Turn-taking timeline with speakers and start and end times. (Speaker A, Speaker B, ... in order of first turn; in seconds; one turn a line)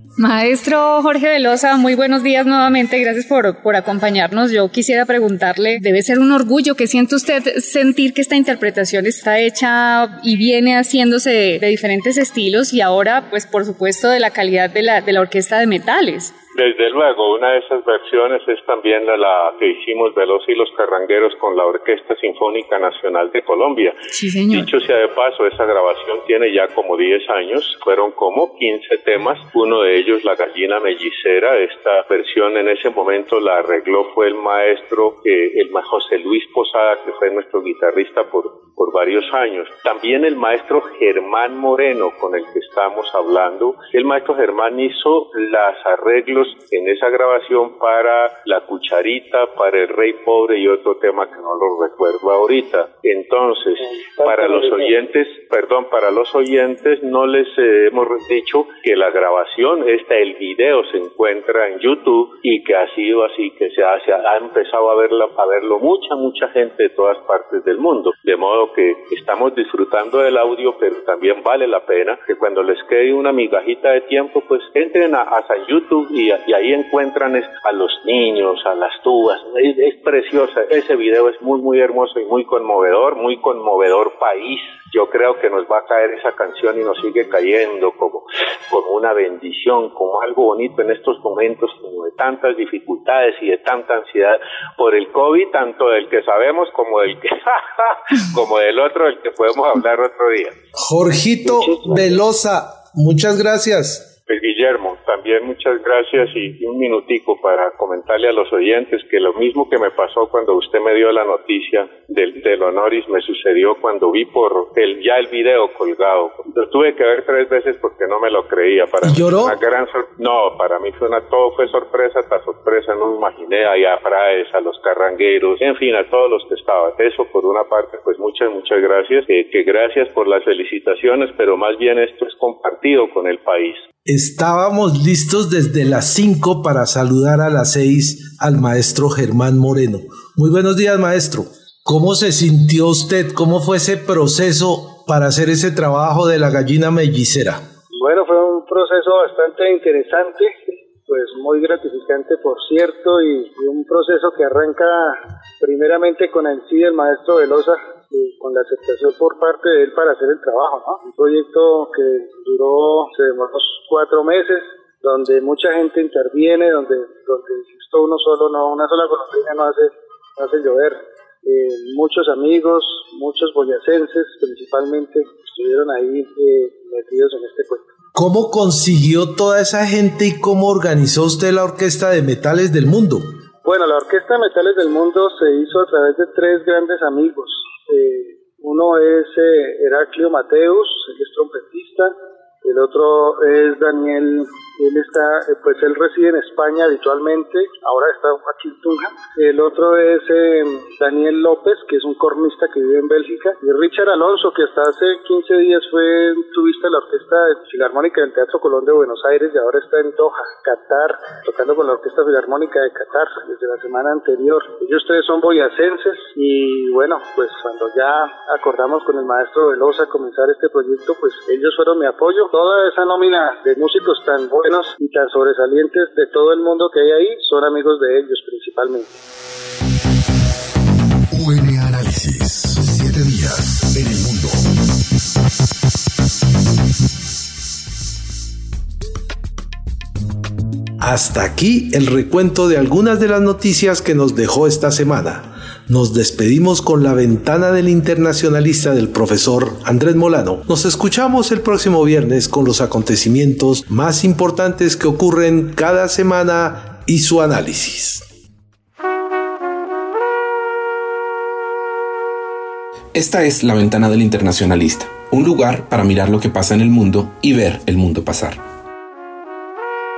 Speaker A: 0.2-16.3
Speaker B: 16.5-24.0
Speaker A: 24.1-24.7
Speaker B: 24.5-100.5
Speaker C: 54.2-54.9
Speaker D: 100.8-104.1
Speaker C: 101.5-102.1
Speaker B: 104.3-133.8
Speaker D: 119.0-119.6
Speaker D: 134.1-147.6
Speaker C: 147.9-177.9
Speaker D: 178.1-183.3
Speaker C: 183.6-229.2
Speaker E: 231.3-234.6
Speaker D: 241.0-258.2
Speaker F: 263.1-268.6